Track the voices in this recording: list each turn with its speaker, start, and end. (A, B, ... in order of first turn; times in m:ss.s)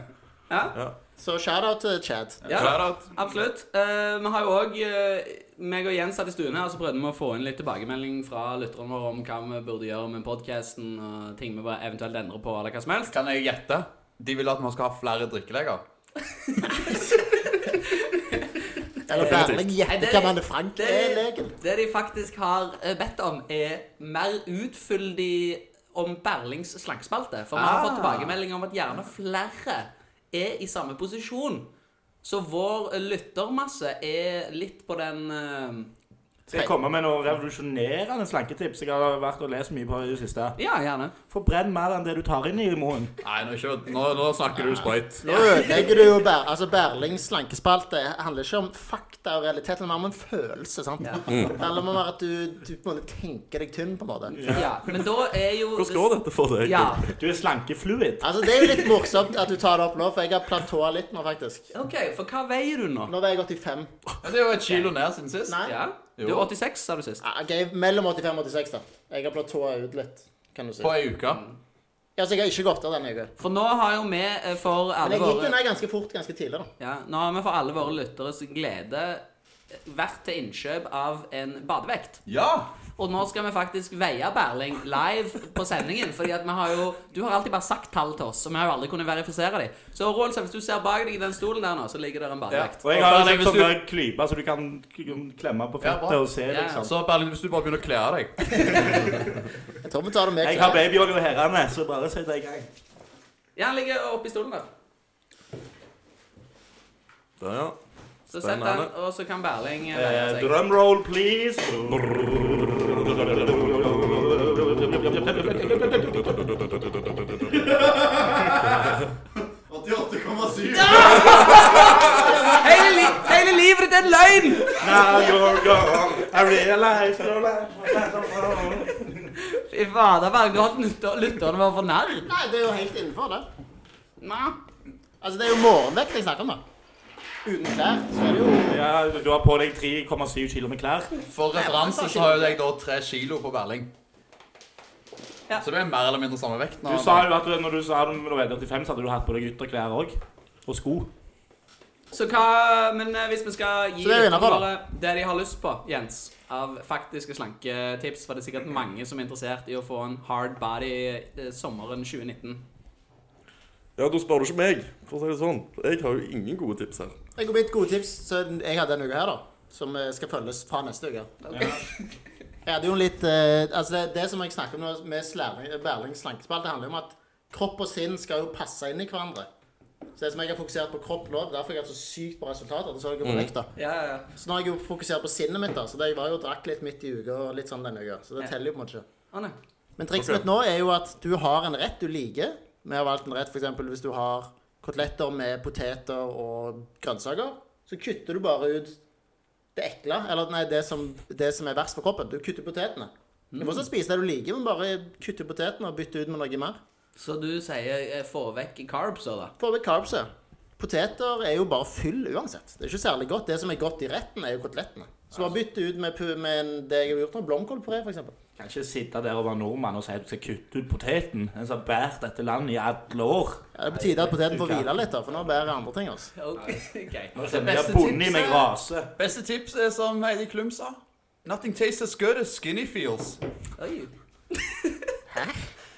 0:00.5-0:00.8 A
0:01.2-0:02.4 B
0:02.4-0:03.0 C
0:02.4-0:13.1 A
0:13.1-0:15.8 C
0:16.3-0:31.7 A
0:19.1-0:21.6 B
0:19.1-0:19.7 D
0:27.5-0:28.4 C
0:32.2-0:35.9 A
0:36.5-0:40.6 E
0:40.6-0:41.1 A
0:41.3-0:43.1 E
0:43.2-0:45.6 C
0:45.2-0:54.6 B
0:45.2-0:45.8 A
0:51.3-0:51.5 D
0:54.3-0:57.1 A
0:54.3-0:54.6 E
0:55.7-0:57.1 D
0:57.2-0:58.4 E
0:58.2-1:01.7 B
1:01.7-1:03.1 A
1:03.1-1:03.9 B
1:04.2-1:05.6 C
1:04.6-1:04.9 A
1:05.5-1:05.8 B
1:05.6-1:07.2 A
1:06.2-1:06.5 C
1:07.2-1:10.9 B
1:10.8-1:11.4 C
1:11.3-1:11.6 A
1:12.2-1:13.3 B
1:13.4-1:15.6 A
1:15.0-1:16.7 B
1:16.8-1:22.2 A
1:22.3-1:22.7 C
1:23.0-1:32.8 A
1:32.5-1:33.8 C
1:32.8-1:36.9 E
1:35.8-1:36.3 C
1:36.5-1:36.8 A
1:36.8-1:39.1 C
1:38.9-1:39.2 E
1:39.8-1:40.8 B
1:40.4-1:42.7 E
1:43.6-1:44.7 A
1:47.4-1:47.8 D
1:48.3-1:48.9 D
1:48.3-1:50.5 A
1:49.9-1:56.9 E
1:56.3-1:57.4 D
1:57.5-1:59.0 C
1:59.6-2:02.5 C
2:00.7-2:04.8 A
2:01.9-2:03.1 B
2:04.7-2:09.3 E
2:09.3-2:12.3 A
2:12.2-2:13.5 B
2:14.2-2:14.6 A
2:15.2-2:16.6 B
2:17.4-2:18.8 B
2:18.6-2:21.2 E
2:21.3-2:23.9 C
2:21.6-2:22.5 B
2:25.6-2:27.3 C
2:26.8-2:31.1 E
2:32.1-2:42.6 A
2:34.0-2:34.7 B
2:44.0-2:47.2 D
2:47.4-2:51.5 B
2:51.5-2:51.9 A
2:51.5-2:51.8 E
2:52.6-2:59.5 B
3:00.2-3:03.7 B
3:03.2-3:03.5 D
3:03.8-3:04.3 A
3:04.3-3:09.0 B
3:10.0-3:19.0 B
3:10.2-3:10.4 D
3:19.7-3:26.8 B
3:23.5-3:23.8 A
3:27.2-3:29.5 A
3:29.6-3:38.4 B
3:38.6-3:44.9 E
3:43.8-3:46.3 B
3:46.4-3:48.6 A
3:47.3-3:49.1 E
3:47.4-3:47.8 C
3:49.2-3:53.4 C
3:53.8-3:55.2 A
3:55.3-3:55.7 B